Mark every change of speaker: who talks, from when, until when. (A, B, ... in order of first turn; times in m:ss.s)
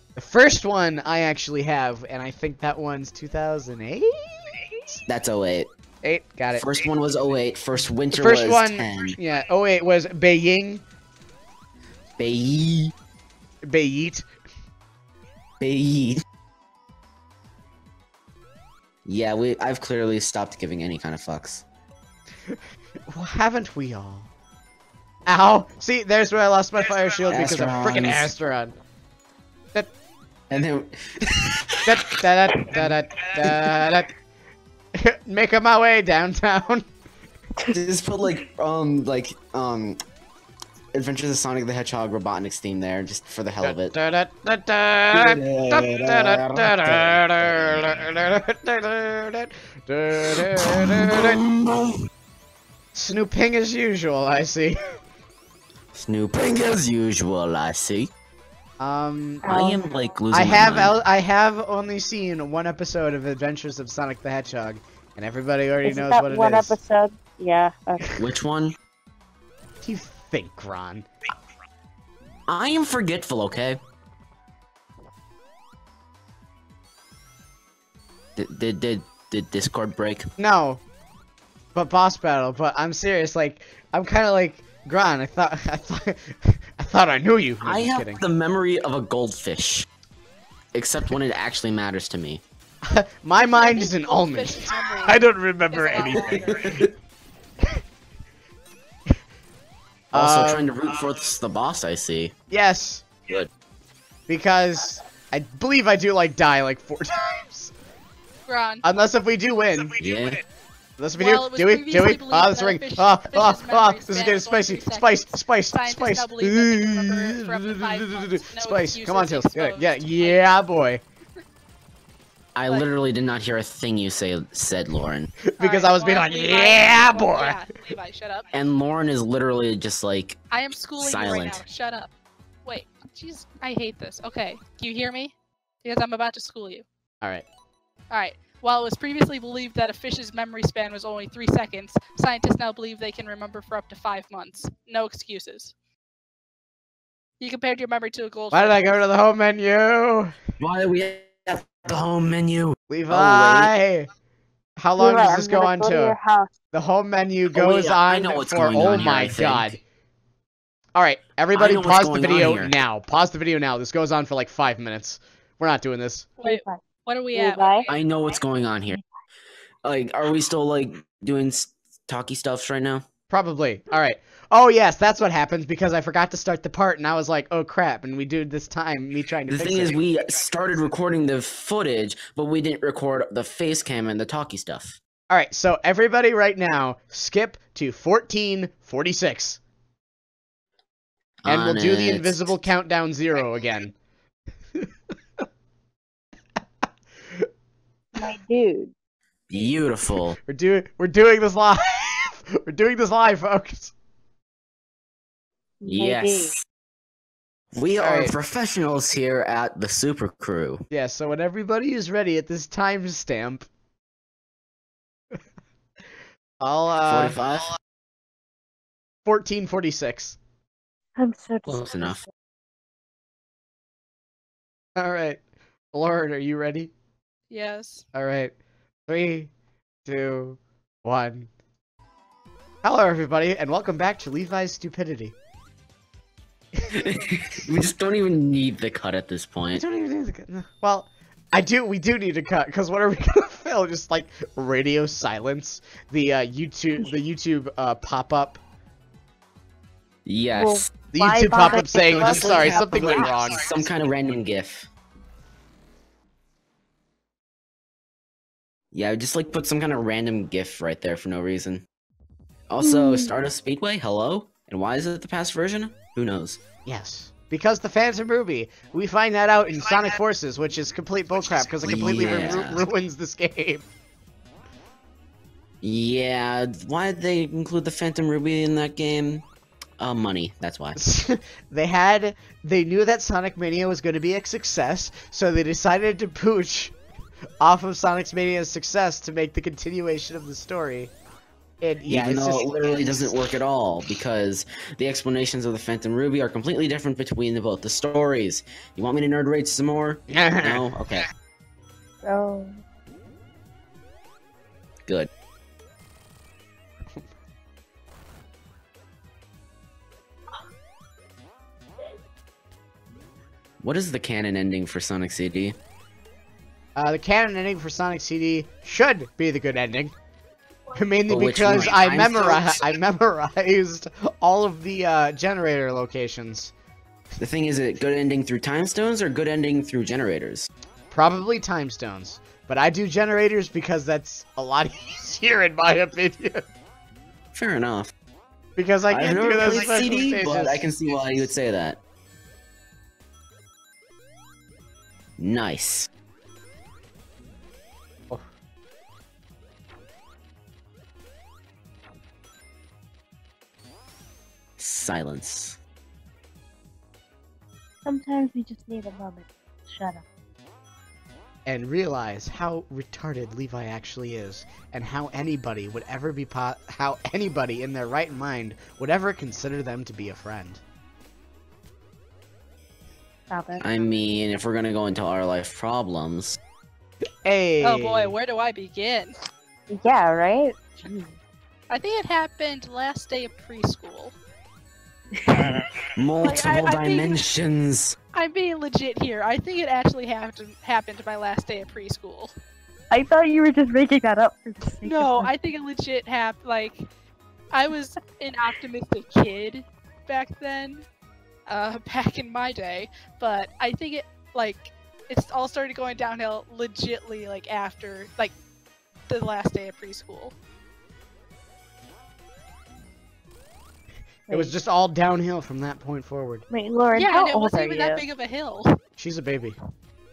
0:00.2-0:05.0 A
0:05.1-0:05.7 B
0:06.0-0:06.7 A
0:06.5-0:09.2 B
0:08.1-0:10.8 A
0:12.2-0:12.9 B
0:13.6-0:14.2 A
0:15.6-0:16.2 B
0:19.0-0:21.6 B
0:23.1-0:24.3 A
0:25.3-0:28.7 A
0:27.3-0:28.3 B
0:30.5-0:31.9 B
0:31.8-0:34.1 A
0:33.4-0:33.8 B
0:34.9-0:36.9 A
0:37.6-0:40.0 B
0:40.9-0:43.9 B
0:43.6-0:51.4 A
0:45.1-0:48.1 B
0:50.3-0:52.0 B
0:52.9-0:54.8 A
0:55.9-0:58.1 B
0:58.8-0:59.4 A
0:59.4-0:59.8 C
0:59.4-1:01.0 B
1:00.3-1:06.8 A
1:05.8-1:08.2 C
1:08.2-1:08.7 B
1:09.8-1:11.1 A
1:12.5-1:13.8 B
1:18.4-1:20.3 B
1:20.4-1:20.8 A
1:21.7-1:28.2 A
1:27.6-1:29.8 B
1:30.7-1:32.4 B
1:32.8-1:36.8 A
1:33.4-1:36.8 D
1:36.0-1:36.9 B
1:40.1-1:40.7 A
1:40.1-1:42.3 B
1:42.5-1:43.0 A
1:44.3-1:47.7 A
1:48.5-1:48.8 D
1:48.8-1:50.0 A
1:50.0-1:50.4 B
1:51.0-2:01.0 A
1:51.2-2:00.6 D
2:02.5-2:05.3 B
2:05.5-2:07.6 A
2:05.6-2:08.5 D
2:08.5-2:10.4 B
2:10.5-2:12.1 D
2:11.0-2:11.6 B
2:12.6-2:16.8 D
2:18.1-2:25.7 D
2:27.4-2:29.0 D
2:28.5-2:30.3 A
2:30.6-2:33.7 B
2:32.9-2:34.1 A
2:34.8-2:36.2 A
2:35.0-2:36.5 C
2:36.7-2:39.8 A
2:37.5-2:39.8 B
2:40.9-2:46.3 A
2:41.5-2:42.7 B
2:46.4-2:48.0 D
2:46.4-2:46.8 C
2:47.3-2:47.8 C
2:47.9-2:49.0 B
2:49.8-2:53.0 B
2:53.3-3:00.0 A
2:59.5-3:05.0 B
3:05.3-3:09.6 A
3:11.4-3:12.7 B
3:11.4-3:13.9 A
3:18.2-3:18.9 C
3:19.5-3:20.4 B
3:20.5-3:23.9 A
3:25.8-3:26.5 C
3:25.8-3:26.6 B
3:27.7-3:30.8 B
3:28.0-3:28.3 A
3:30.9-3:33.7 A
3:36.6-3:37.4 A
3:37.0-3:37.7 B
3:39.2-3:40.4 A
3:41.2-3:42.3 C
3:41.6-3:42.2 B
3:45.0-3:45.4 A
3:45.9-3:46.9 A
3:47.5-3:48.0 D
3:48.1-3:48.5 A
3:49.1-3:49.5 A
3:50.0-3:51.5 A
3:52.8-3:55.3 A
3:56.9-3:59.8 B
3:59.7-4:08.6 A
4:10.2-4:10.9 B
4:10.5-4:13.3 C
4:11.1-4:13.6 A
4:11.6-4:14.9 B
4:18.9-4:21.8 B
4:22.7-4:26.6 B
4:22.8-4:23.3 C
4:26.8-4:33.8 A
4:31.8-4:32.9 B
4:35.8-4:39.4 B
4:40.0-4:41.0 B
4:41.0-4:46.9 A
4:47.6-4:51.1 A
4:51.8-4:53.4 A
4:52.1-5:01.3 B
5:00.3-5:00.9 A
5:02.2-5:02.8 C
5:13.8-5:15.8 B
5:17.0-5:20.1 A
5:20.9-5:26.7 A
5:21.3-5:22.8 B
5:27.4-5:30.7 B
5:31.1-5:36.6 A
5:37.5-5:38.1 B
5:38.8-5:40.9 A
5:39.1-5:42.0 B
5:45.4-5:46.1 B
5:54.8-5:55.8 B
5:58.0-6:00.2 C
6:01.7-6:10.8 A
6:13.5-6:13.8 C
6:13.8-6:16.6 B
6:17.4-6:18.3 A
6:17.8-6:19.4 D
6:19.9-6:21.3 C
6:21.9-6:24.3 D
6:26.1-6:28.2 B
6:26.4-6:27.5 D
6:28.3-6:32.5 D
6:33.1-6:35.5 C
6:35.0-6:37.1 D
6:37.7-6:41.0 D
6:41.7-6:48.5 D
6:49.3-6:50.5 D
6:54.5-6:56.6 A
6:56.7-6:58.2 C
6:57.1-6:59.0 D
6:59.2-6:59.8 A